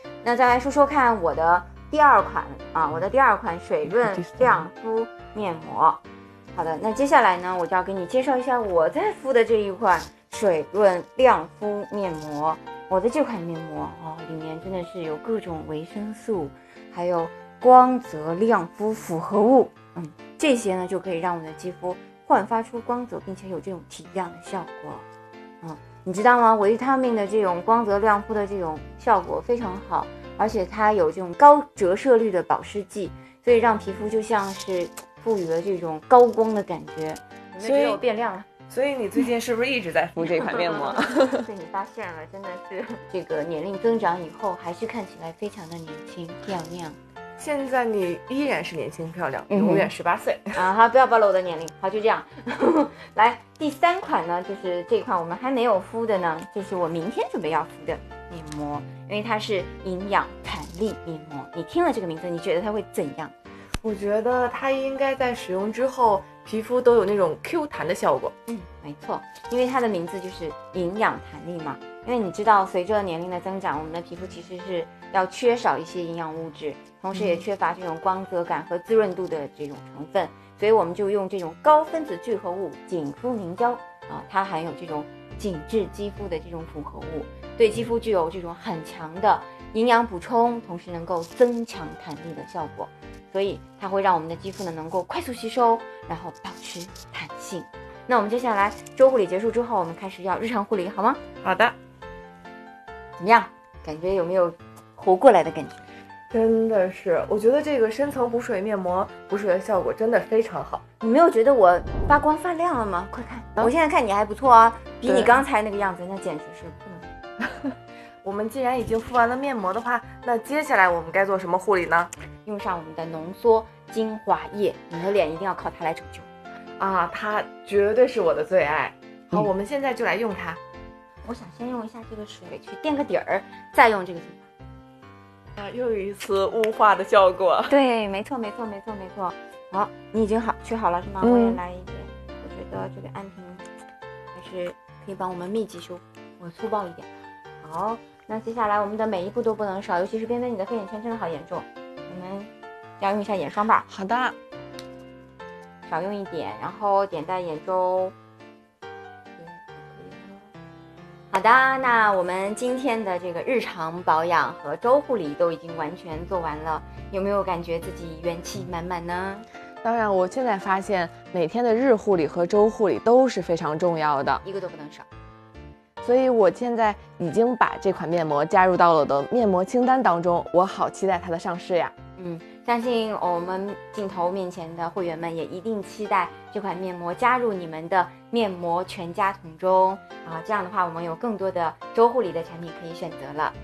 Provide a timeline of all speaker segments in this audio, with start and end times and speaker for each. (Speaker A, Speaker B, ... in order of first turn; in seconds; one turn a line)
Speaker A: 0.2-6.0
Speaker B: 3.9-4.7
Speaker A: 6.5-25.1
Speaker A: 25.6-38.5
Speaker B: 37.6-38.0
Speaker B: 38.7-41.5
Speaker A: 40.2-47.0
Speaker B: 47.4-50.6
Speaker A: 49.5-49.9
Speaker A: 50.6-63.3
Speaker B: 63.8-68.3
Speaker A: 68.5-101.2
Speaker B: 77.1-77.4
Speaker B: 101.4-101.8
Speaker A: 103.2-105.9
Speaker B: 106.3-110.8
Speaker A: 111.0-117.1
Speaker B: 115.1-115.4
Speaker B: 118.2-122.1
Speaker A: 122.5-126.3
Speaker B: 126.8-130.6
Speaker A: 131.2-134.5
Speaker B: 135.6-137.8
Speaker A: 137.7-143.7
Speaker B: 141.2-141.6
Speaker A: 144.3-153.9
Speaker B: 153.9-154.4
Speaker A: 155.9-158.1
Speaker A: 159.4-160.5
Speaker A: 161.3-169.5
Speaker B: 169.8-174.4
Speaker A: 174.4-175.1
Speaker B: 176.0-181.9
Speaker A: 182.2-193.6